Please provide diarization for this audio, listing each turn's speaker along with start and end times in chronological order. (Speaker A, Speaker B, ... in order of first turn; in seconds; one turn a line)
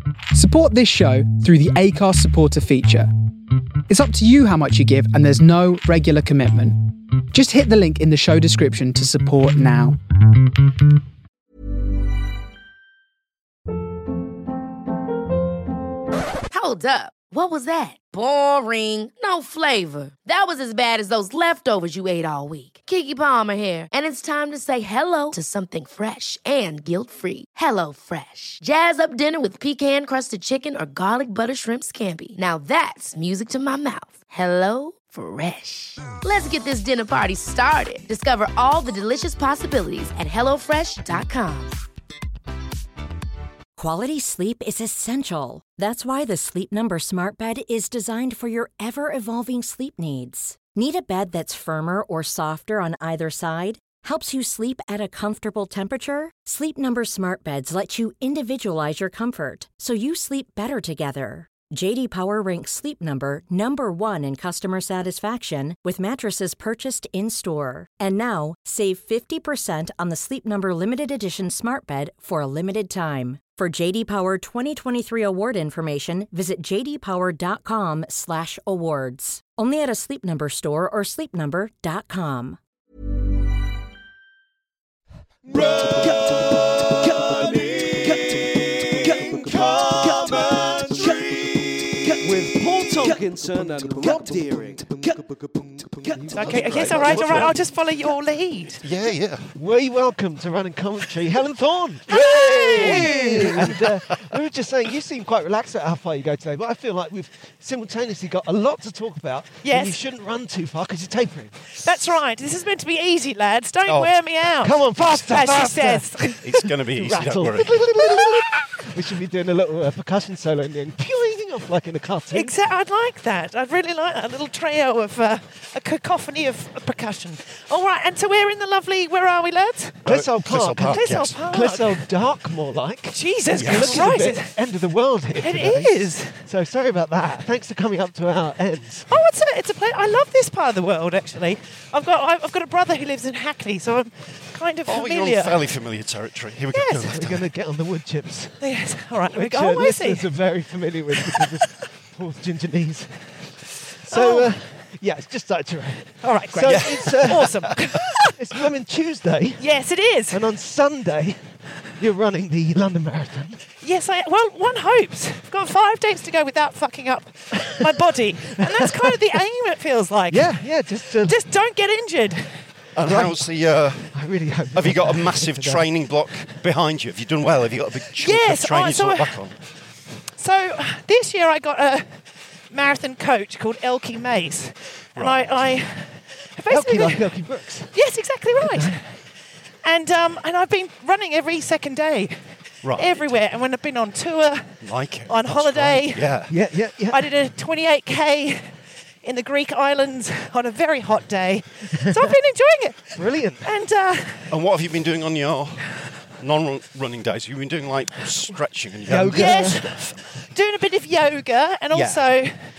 Speaker A: 0.3-3.1
Speaker A: 3.9-10.0
Speaker B: 16.5-41.8
Speaker C: 43.8-82.6
Speaker D: 85.5-86.3
Speaker D: 87.0-88.1
Speaker D: 89.0-91.0
Speaker D: 92.1-97.6
Speaker E: 96.2-98.8
Speaker F: 96.3-97.5
Speaker F: 98.8-99.5
Speaker D: 99.5-111.5
Speaker E: 102.1-103.8
Speaker F: 102.1-103.9
Speaker E: 109.6-110.0
Speaker E: 111.8-116.5
Speaker F: 113.9-114.1
Speaker D: 114.6-122.5
Speaker F: 116.4-117.8
Speaker E: 122.3-130.1
Speaker F: 130.0-131.4
Speaker D: 130.0-139.1
Speaker E: 130.8-132.0
Speaker E: 133.1-134.5
Speaker F: 133.6-134.1
Speaker E: 135.4-136.3
Speaker E: 139.1-145.6
Speaker F: 144.8-147.4
Speaker E: 146.7-147.1
Speaker D: 147.0-148.6
Speaker E: 148.6-150.3
Speaker D: 149.3-153.1
Speaker D: 154.0-159.7
Speaker E: 154.1-154.5
Speaker E: 156.2-158.3
Speaker F: 156.7-157.7
Speaker E: 159.6-160.4
Speaker D: 160.3-161.4
Speaker D: 162.0-163.6
Speaker E: 163.8-172.6
Speaker D: 167.6-167.9
Speaker D: 168.6-169.2
Speaker D: 170.3-171.4
Speaker F: 172.9-174.2
Speaker D: 173.1-173.5
Speaker D: 174.1-175.8
Speaker F: 174.7-179.6
Speaker E: 178.2-179.4
Speaker E: 180.4-182.2
Speaker E: 182.7-187.2
Speaker F: 185.2-185.6
Speaker D: 186.7-187.9
Speaker E: 187.9-189.1
Speaker D: 188.6-188.9
Speaker E: 189.8-192.3
Speaker F: 192.8-193.1
Speaker E: 192.9-196.3
Speaker F: 194.8-196.5
Speaker D: 196.5-197.3
Speaker E: 197.1-204.5
Speaker D: 202.0-202.3
Speaker D: 203.1-203.7
Speaker F: 204.5-210.2
Speaker D: 209.1-210.0
Speaker E: 209.3-212.5
Speaker F: 211.9-212.2